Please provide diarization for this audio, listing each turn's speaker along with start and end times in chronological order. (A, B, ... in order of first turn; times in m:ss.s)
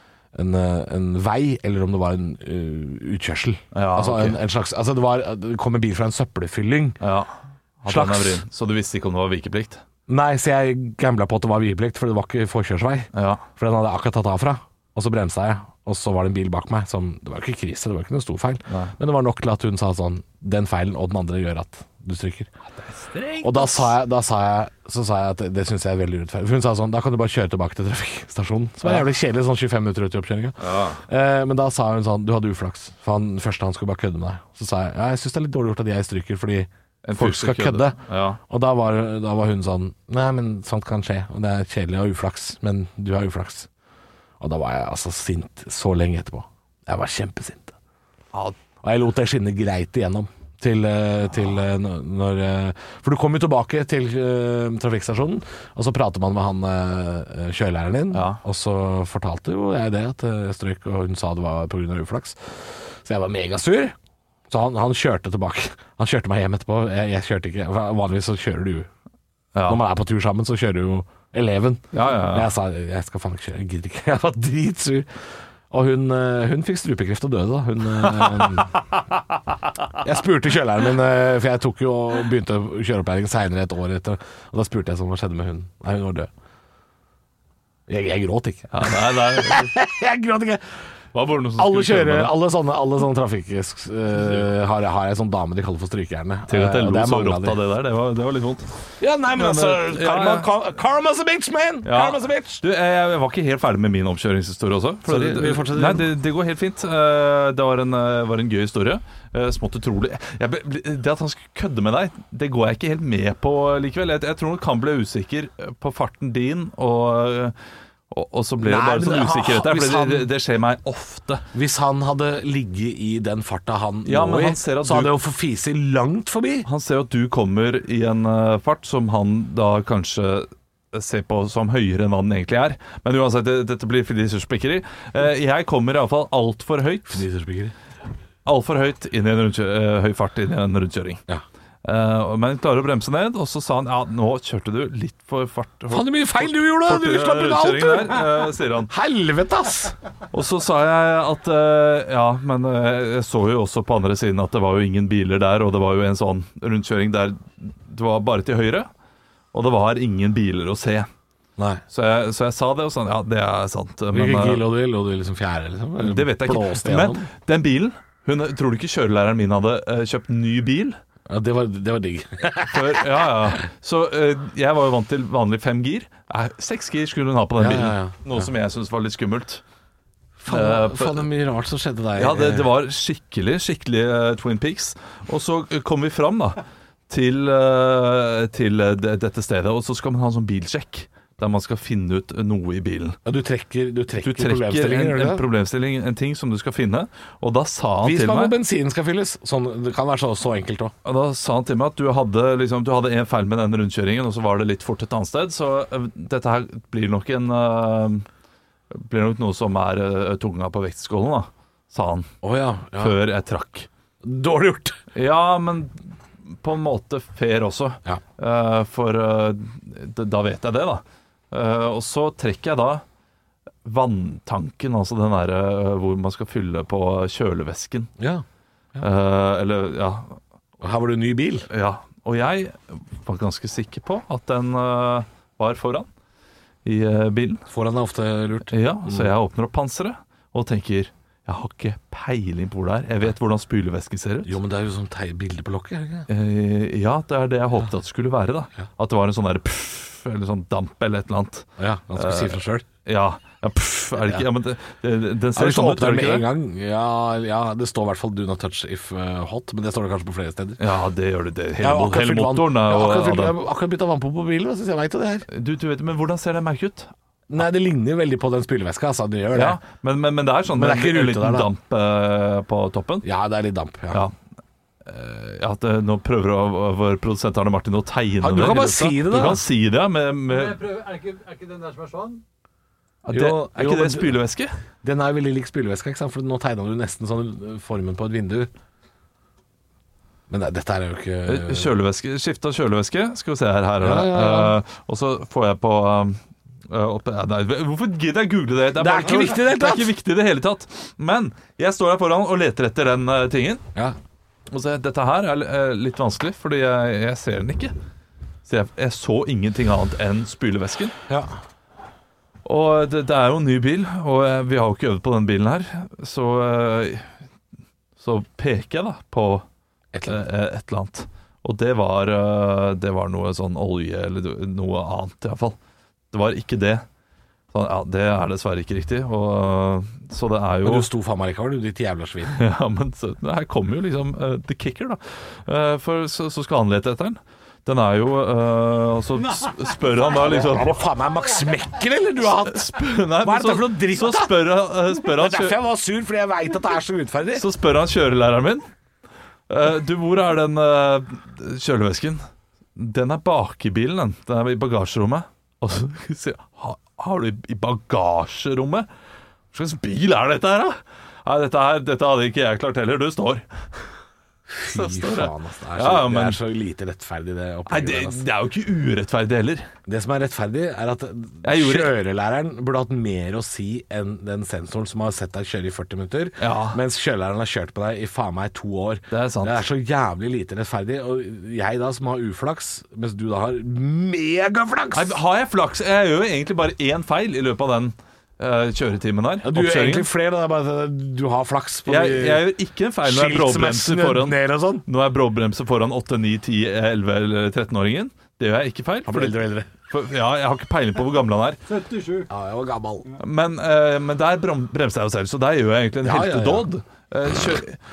0:00.3-0:07.0 A
0:03.7-0:04.4 B
0:07.0-0:09.8 B
0:07.8-0:08.4 A
0:10.1-0:22.5 A
0:13.1-0:13.4 B
0:18.7-0:18.9 B
0:22.7-0:23.9 B
0:23.4-0:43.7 A
0:30.6-0:31.0 B
0:37.0-0:38.4 B
0:44.4-0:47.7 A
0:48.8-1:03.9 A
0:58.1-0:58.4 B
1:04.5-1:08.9 A
1:09.5-1:09.8 B
1:09.7-1:15.1 A
1:11.9-1:12.5 B
1:15.7-1:18.7 A
1:18.1-1:19.0 B
1:20.0-1:26.3 A
1:27.9-1:30.8 A
1:28.7-1:29.7 B
1:31.1-1:32.3 B
1:31.6-1:37.6 A
1:36.5-1:38.7 B
1:39.0-1:42.6 A
1:39.3-1:40.5 B
1:41.8-1:57.5 B
1:45.0-1:46.1 A
1:58.1-2:01.4 B
1:58.6-2:00.3 A
2:01.5-2:06.7 A
2:04.0-2:05.1 B
2:06.6-2:17.2 B
2:17.1-2:17.7 A
2:18.4-2:21.2 B
2:21.8-2:28.9 B
2:25.9-2:30.0 A
2:30.3-2:38.9 B
2:39.5-2:41.1 B
2:41.6-2:41.8 A
2:41.9-2:44.6 B
2:44.1-2:47.3 A
2:46.0-2:51.0 B
2:51.3-2:53.5 A
2:52.7-2:59.6 B
2:57.6-2:58.5 A
3:00.4-3:02.7 A
3:00.5-3:01.2 B
3:02.2-3:13.2 B
3:13.2-3:15.4 A
3:14.2-3:18.6 B
3:18.0-3:20.9 A
3:21.0-3:28.2 B
3:28.9-3:32.3 B
3:32.4-3:33.2 A
3:33.0-3:33.9 B
3:34.2-3:35.0 A
3:35.1-3:43.0 B
3:43.8-3:48.1 B
3:48.2-3:48.4 A
3:49.0-3:50.4 B
3:50.8-3:51.7 A
3:51.7-3:56.1 B
3:56.8-3:57.6 B
3:57.7-3:59.3 A
3:58.7-4:04.6 B
4:04.4-4:06.3 A
4:06.3-4:16.5 B
4:11.8-4:12.8 A
4:15.5-4:20.8 A
4:20.8-4:23.5 B
4:21.8-4:25.4 A
4:25.5-4:27.1 B
4:27.5-4:29.8 A
4:29.5-4:33.3 B
4:30.7-4:31.7 A
4:33.2-4:34.3 A
4:35.0-4:40.8 B
4:38.4-4:39.6 A
4:40.5-4:42.4 C
4:43.2-4:44.7 B
4:43.3-4:44.4 A
4:45.0-4:48.7 A
4:50.5-4:51.9 A
4:51.4-5:03.8 B
4:54.0-4:54.8 A
4:59.0-5:00.1 A
5:04.7-5:07.9 B
5:08.6-5:11.1 B
5:11.3-5:11.5 A
5:12.6-5:17.4 B
5:18.2-5:19.6 B
5:20.1-5:20.4 A
5:20.2-5:25.8 B
5:26.3-5:27.0 B
5:27.7-5:31.1 B
5:30.8-5:32.6 A
5:32.5-5:40.9 B
5:40.2-5:47.6 A
5:42.4-5:45.8 B
5:47.6-5:48.8 B
5:49.7-5:52.4 B
5:53.0-5:59.1 B
5:59.7-6:03.6 B
6:04.7-6:08.4 A
6:04.8-6:06.6 B
6:07.9-6:09.9 B
6:10.1-6:25.4 A
6:11.6-6:12.1 B
6:16.6-6:17.0 B
6:19.3-6:19.8 B
6:25.1-6:30.3 B
6:29.6-6:32.6 A
6:32.0-6:42.0 B
6:33.2-6:35.0 A
6:39.2-6:39.9 A
6:42.0-6:42.4 C
6:42.5-6:43.3 A
6:43.4-6:48.0 B
6:46.2-6:46.9 A